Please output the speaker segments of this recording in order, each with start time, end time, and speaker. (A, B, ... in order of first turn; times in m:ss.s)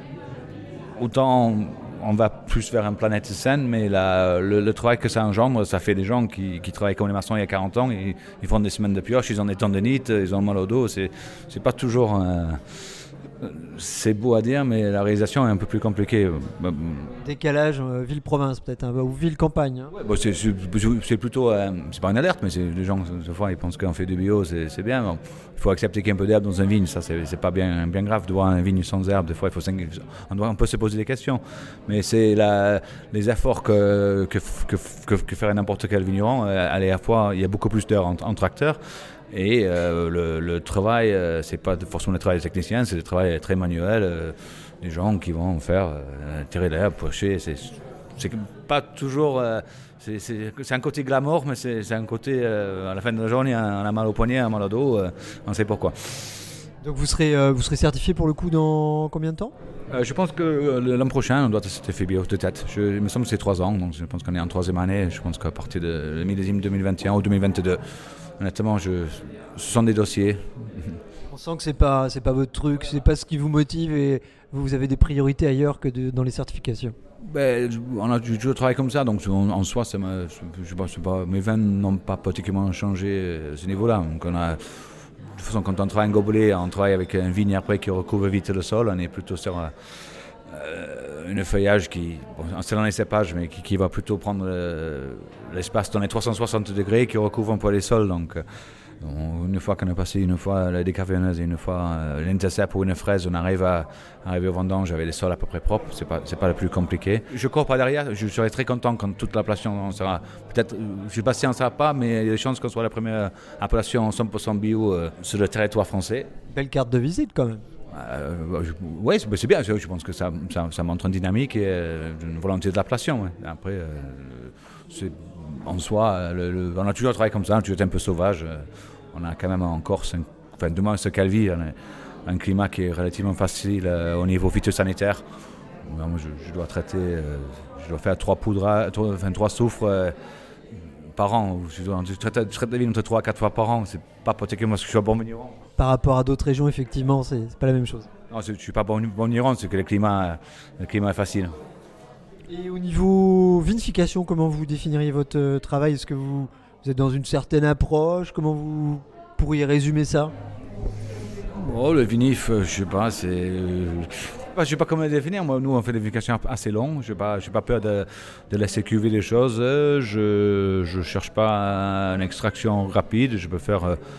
0:01.0-0:12.7 A
0:13.4-0:17.2 A
0:17.2-0:19.9 B
0:19.9-0:38.8 A
0:39.3-0:56.4 A
0:56.8-0:59.5 B
0:59.9-1:07.8 A
1:08.4-1:11.0 A
1:11.3-1:17.0 B
1:17.2-1:29.9 A
1:30.4-1:38.4 A
1:39.0-1:56.3 A
1:56.5-1:57.6 B
1:57.9-2:15.2 A
2:15.8-2:20.2 A
2:20.7-2:25.6 A
2:25.8-2:28.1 B
2:28.3-2:31.5 A
2:32.5-2:40.3 B
2:41.5-2:54.0 A